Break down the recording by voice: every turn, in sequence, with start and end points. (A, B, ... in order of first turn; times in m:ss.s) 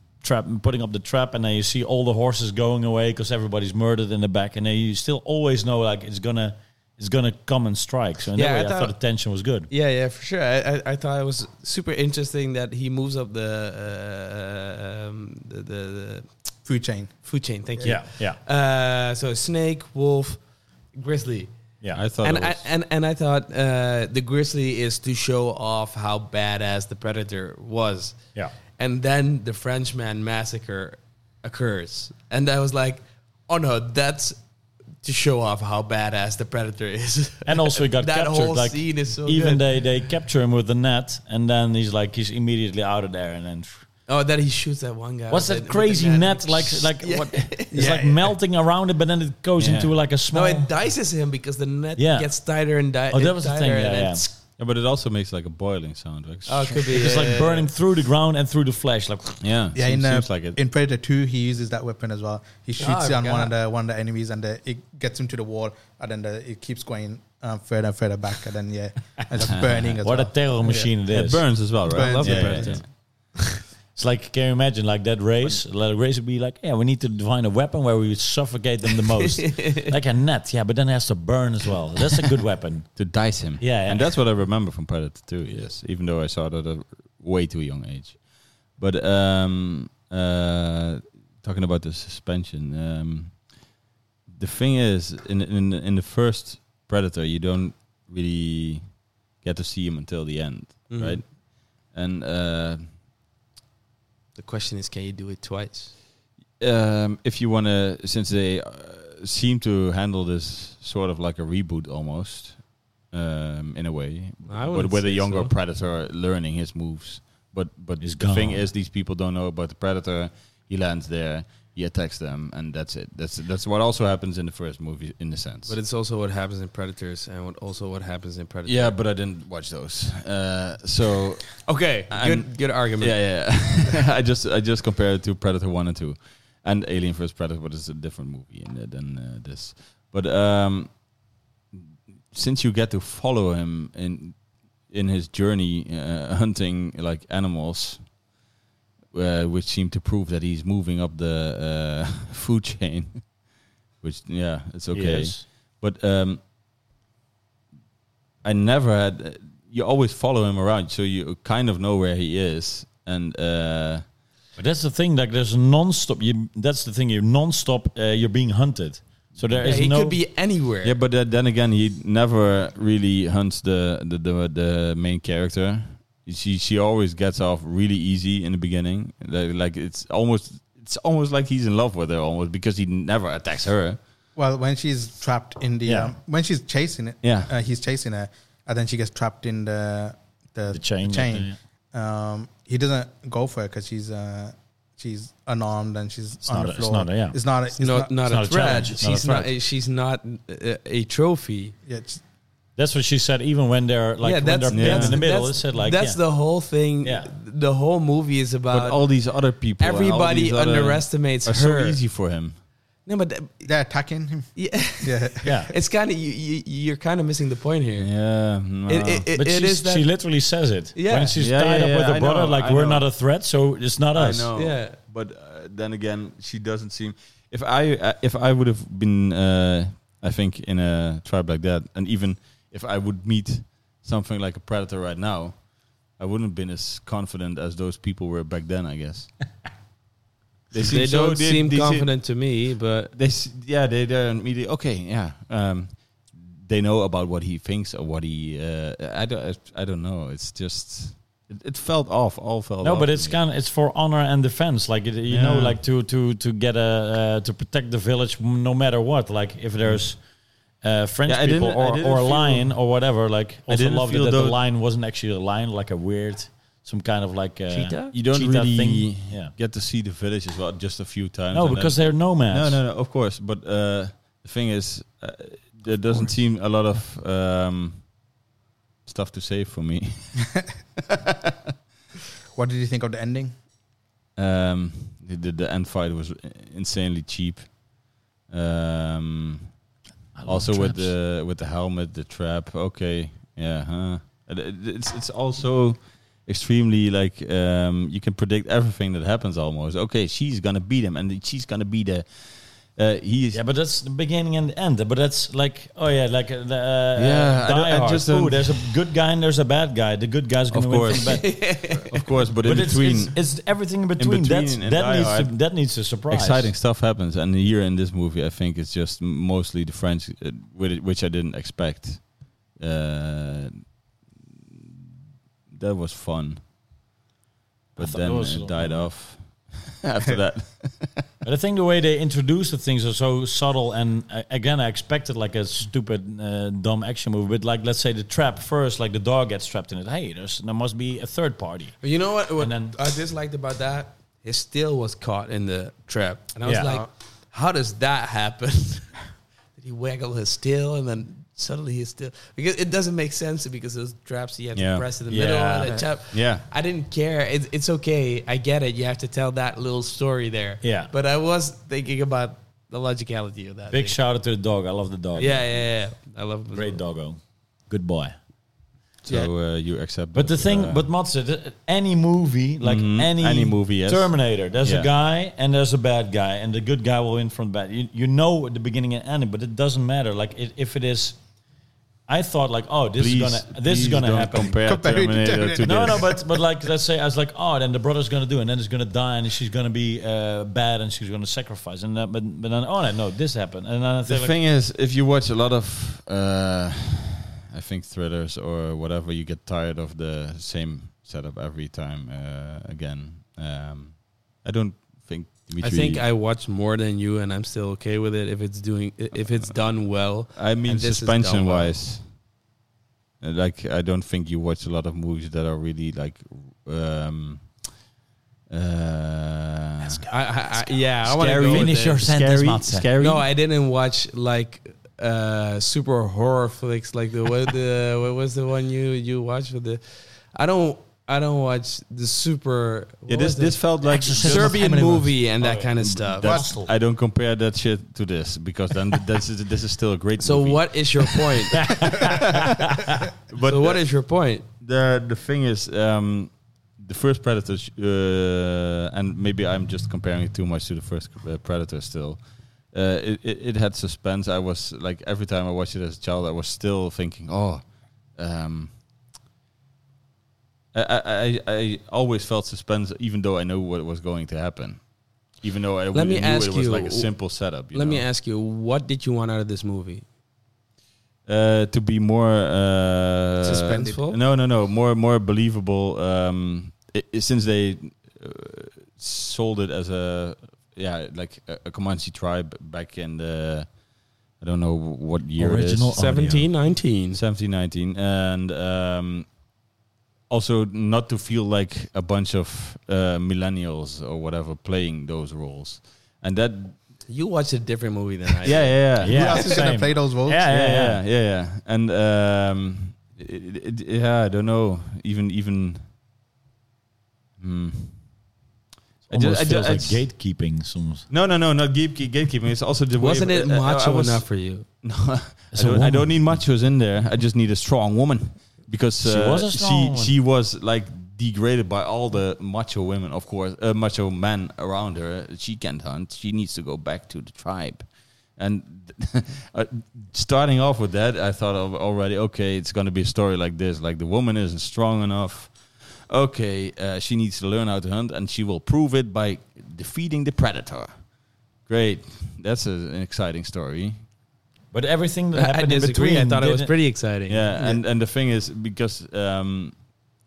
0:00.2-0:09.7 A
0:08.4-0:09.0 B
0:09.7-0:16.3 B
0:16.7-0:17.1 C
0:17.2-0:20.4 B
0:17.8-0:18.4 A
0:20.9-0:21.5 B
0:21.9-0:22.7 D
0:22.2-0:34.4 B
0:35.0-0:39.9 B
0:37.5-0:43.8 A
0:44.1-0:47.9 B
0:45.3-0:50.7 A
0:47.7-0:48.3 C
0:49.6-0:49.9 D
0:50.3-0:54.3 B
0:52.0-0:52.3 A
0:53.1-0:54.2 A
0:54.6-0:56.8 D
0:56.5-0:57.7 B
0:56.9-0:59.4 A
0:59.4-1:00.6 D
0:59.8-1:10.9 C
1:02.8-1:03.5 B
1:09.4-1:09.9 D
1:10.0-1:11.6 A
1:11.1-1:12.9 D
1:11.9-1:12.8 C
1:11.9-1:12.9 B
1:14.0-1:23.1 A
1:19.2-1:19.9 B
1:23.0-1:28.2 D
1:23.6-1:24.1 A
1:28.8-1:33.4 D
1:34.3-1:38.9 D
1:39.4-1:42.9 D
1:40.9-1:41.2 B
1:44.4-1:45.9 B
1:46.6-2:05.8 D
1:54.5-1:55.5 B
1:58.0-1:58.6 A
2:05.7-2:09.0 B
2:08.7-2:21.0 D
2:11.6-2:13.4 B
2:22.3-2:28.1 D
2:29.1-2:33.3 D
2:34.0-2:36.4 D
2:34.9-2:35.4 A
2:38.4-2:44.0 D
2:44.6-2:50.2 A
2:49.4-2:49.8 D
2:49.6-2:51.0 B
2:50.8-3:04.0 D
3:04.4-3:18.8 C
3:05.8-3:06.1 A
3:07.2-3:07.5 D
3:10.7-3:11.6 A
3:16.4-3:17.4 A
3:17.8-3:21.7 B
3:18.2-3:19.5 A
3:21.9-3:22.2 C
3:22.8-3:26.2 A
3:24.2-3:29.0 B
3:24.7-3:25.2 D
3:27.0-3:27.3 A
3:28.7-3:32.6 D
3:29.8-3:32.0 B
3:33.1-3:33.7 B
3:33.6-3:35.5 C
3:34.6-3:38.1 B
3:35.4-3:35.7 A
3:38.0-3:39.3 D
3:38.9-3:40.1 B
3:39.4-3:44.5 A
3:41.0-3:41.4 B
3:41.4-3:43.1 D
3:44.1-3:55.6 D
3:44.5-3:45.0 B
3:56.2-3:59.3 D
4:00.7-4:02.1 D
4:00.8-4:03.1 B
4:03.1-4:13.4 D
4:12.8-4:20.2 A
4:15.3-4:15.8 D
4:20.8-4:29.5 A
4:21.3-4:22.7 D
4:23.7-4:24.6 D
4:27.7-4:28.1 B
4:28.1-4:38.1 D
4:31.5-4:32.8 A
4:39.0-4:40.6 D
4:42.5-4:43.6 C
4:44.4-4:47.8 D
4:48.5-4:49.7 D
4:50.4-4:51.1 A
4:50.4-5:03.6 D
5:03.5-5:11.6 A
5:07.2-5:09.0 D
5:10.7-5:13.6 D
5:11.1-5:12.2 B
5:12.6-5:16.7 A
5:14.2-5:15.6 D
5:16.3-5:23.9 D
5:25.7-5:26.6 D
5:28.0-5:31.3 D
5:28.0-5:29.2 A
5:31.4-5:42.0 A
5:42.0-5:49.2 B
5:42.6-5:42.9 A
5:46.7-5:47.0 A
5:49.8-6:04.2 B
5:54.8-5:55.1 D
5:55.3-5:56.0 A
5:56.3-5:56.6 D
6:00.8-6:01.1 A
6:03.9-6:05.7 A
6:05.4-6:07.0 B
6:06.7-6:08.4 A
6:09.2-6:11.1 D
6:10.3-6:21.4 A
6:12.8-6:15.1 D
6:22.3-6:24.8 A
6:23.2-6:26.3 D
6:24.9-6:26.3 C
6:25.8-6:34.6 A
6:34.3-6:46.2 D
6:45.8-6:52.0 B
6:50.5-6:52.3 D
6:53.4-6:57.8 D
6:58.7-7:00.2 D
7:00.0-7:02.2 B
7:01.2-7:03.1 A
7:01.3-7:03.5 D
7:03.2-7:16.6 B
7:13.3-7:24.0 D
7:14.1-7:16.9 A
7:20.4-7:22.2 B
7:21.8-7:23.2 A
7:23.6-7:24.6 B
7:24.8-7:32.4 D
7:32.9-7:39.0 D
7:40.9-7:48.3 D
7:46.1-7:50.2 B
7:51.5-8:03.9 D
7:53.6-7:54.4 B
7:53.6-7:54.2 C
8:04.6-8:06.2 D
8:05.6-8:06.7 A
8:06.1-8:07.4 B
8:07.3-8:09.5 D
8:10.5-8:17.0 D
8:17.3-8:19.8 B
8:18.6-8:19.6 D
8:19.2-8:21.2 A
8:19.2-8:20.7 C
8:20.7-8:26.0 D
8:27.6-8:28.2 D
8:29.3-8:31.3 A
8:29.3-8:30.2 D
8:31.3-8:34.5 D
8:33.2-8:34.9 B
8:35.0-9:01.3 D
8:35.7-8:36.6 A
8:39.2-8:40.3 A
9:01.9-9:04.2 D
9:04.9-9:06.9 A
9:05.5-9:07.7 B
9:07.5-9:10.0 D